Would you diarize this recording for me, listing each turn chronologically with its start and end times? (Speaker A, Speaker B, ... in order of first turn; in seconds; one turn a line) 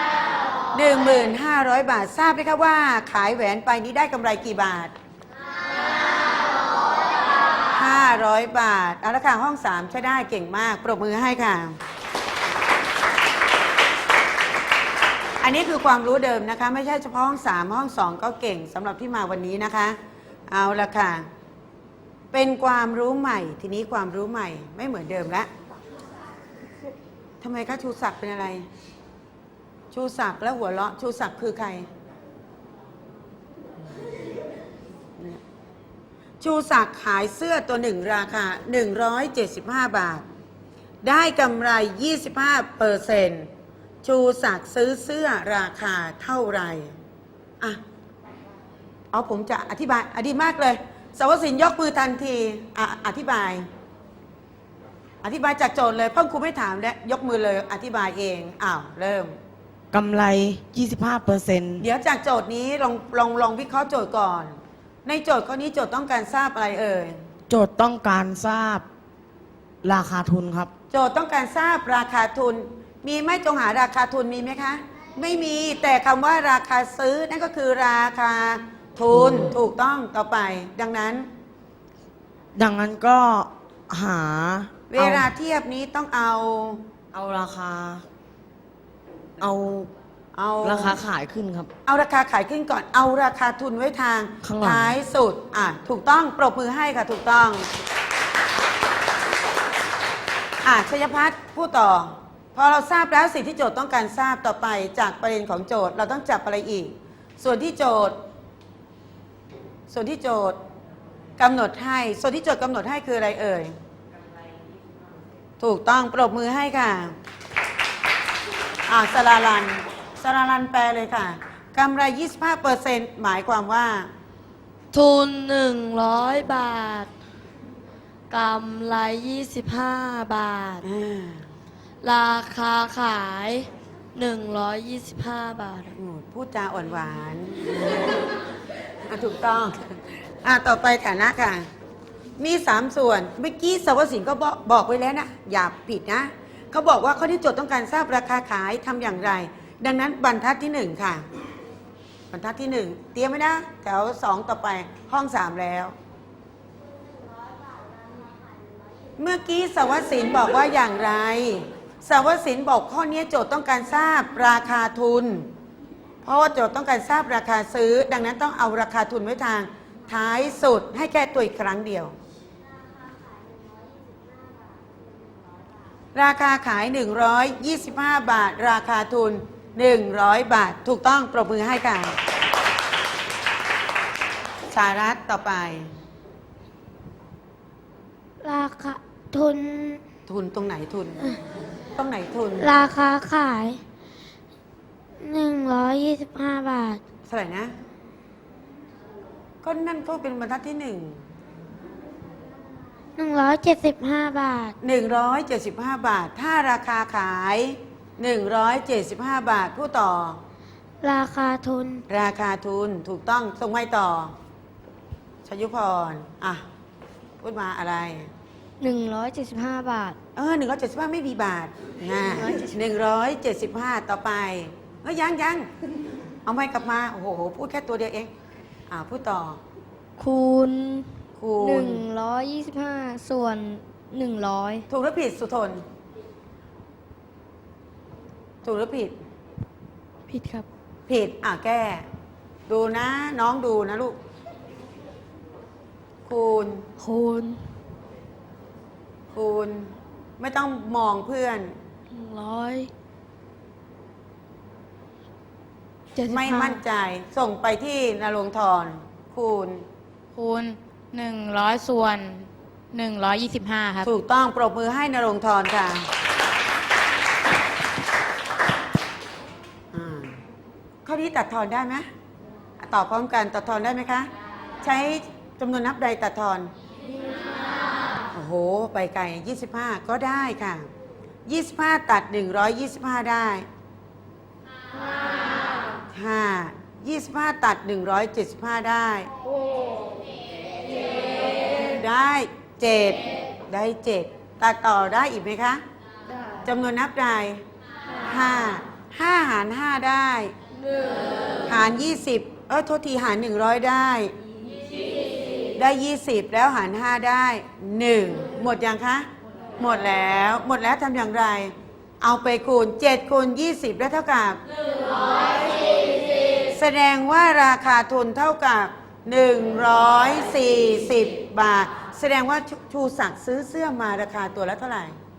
Speaker A: 0.7-4.9
Speaker A: 7.7-11.8
Speaker A: 15.4-20.0
Speaker A: 20.5-21.3
Speaker A: 22.3-25.5
Speaker A: 27.4-28.7
Speaker A: 29.9-31.9
Speaker A: 36.4-40.2
Speaker A: 41.0-43.5
Speaker A: 44.0-46.9
Speaker A: 49.1-53.7
Speaker A: 55.2-59.3
Speaker B: 59.9-61.9
Speaker A: 61.8-67.2
Speaker B: 67.5-68.8
Speaker B: 69.8-70.7
Speaker A: 70.9-81.3
Speaker B: 79.1-79.5
Speaker B: 82.6-85.3
Speaker A: 84.9-86.8
Speaker B: 87.1-88.0
Speaker B: 89.4-89.9
Speaker A: 90.3-91.0
Speaker B: 90.6-91.7
Speaker A: 91.9-97.7
Speaker B: 94.4-94.9
Speaker A: 100.6-108.2
Speaker A: 109.9-110.6
Speaker A: 111.4-113.7
Speaker A: 115.6-117.1
Speaker A: 118.9-124.1
Speaker C: 124.9-127.1
Speaker C: 128.3-130.8
Speaker A: 130.8-131.5
Speaker C: 132.0-135.9
Speaker A: 136.0-138.1
Speaker A: 139.1-141.7
Speaker A: 142.4-151.2
Speaker A: 152.3-155.9
Speaker A: 159.2-165.5
Speaker A: 166.2-172.1
Speaker A: 176.1-182.2
Speaker A: 184.7-185.9
Speaker D: 188.4-190.0
Speaker A: 190.3-191.3
Speaker A: 192.0-192.7
Speaker D: 192.6-193.8
Speaker D: 195.2-197.0
Speaker A: 197.3-197.7
Speaker A: 199.6-201.2
Speaker D: 203.2-204.8
Speaker A: 204.8-210.4
Speaker D: 211.0-212.0
Speaker A: 212.1-214.3
Speaker A: 215.4-216.6
Speaker A: 217.4-218.3
Speaker C: 218.8-220.2
Speaker A: 220.4-225.7
Speaker C: 222.4-222.7
Speaker A: 226.4-228.3
Speaker A: 228.9-229.6
Speaker C: 230.2-231.1
Speaker A: 231.4-232.1
Speaker C: 231.6-234.9
Speaker A: 234.9-235.8
Speaker A: 238.6-239.2
Speaker C: 240.3-240.7
Speaker A: 241.1-242.1
Speaker A: 242.7-244.2
Speaker A: 246.3-246.9
Speaker C: 247.0-247.6
Speaker A: 249.3-251.8
Speaker C: 252.1-252.9
Speaker E: 256.2-256.8
Speaker A: 256.3-259.8
Speaker E: 260.4-264.1
Speaker A: 264.0-266.1
Speaker A: 269.9-270.4
Speaker A: 271.1-272.1
Speaker A: 272.8-274.3
Speaker A: 274.8-276.7
Speaker A: 278.3-280.9
Speaker A: 281.5-283.7
Speaker A: 286.1-289.3
Speaker A: 291.8-295.8
Speaker A: 296.6-297.6
Speaker A: 298.2-300.5
Speaker A: 301.6-304.3
Speaker A: 305.8-314.6
Speaker A: 316.7-325.1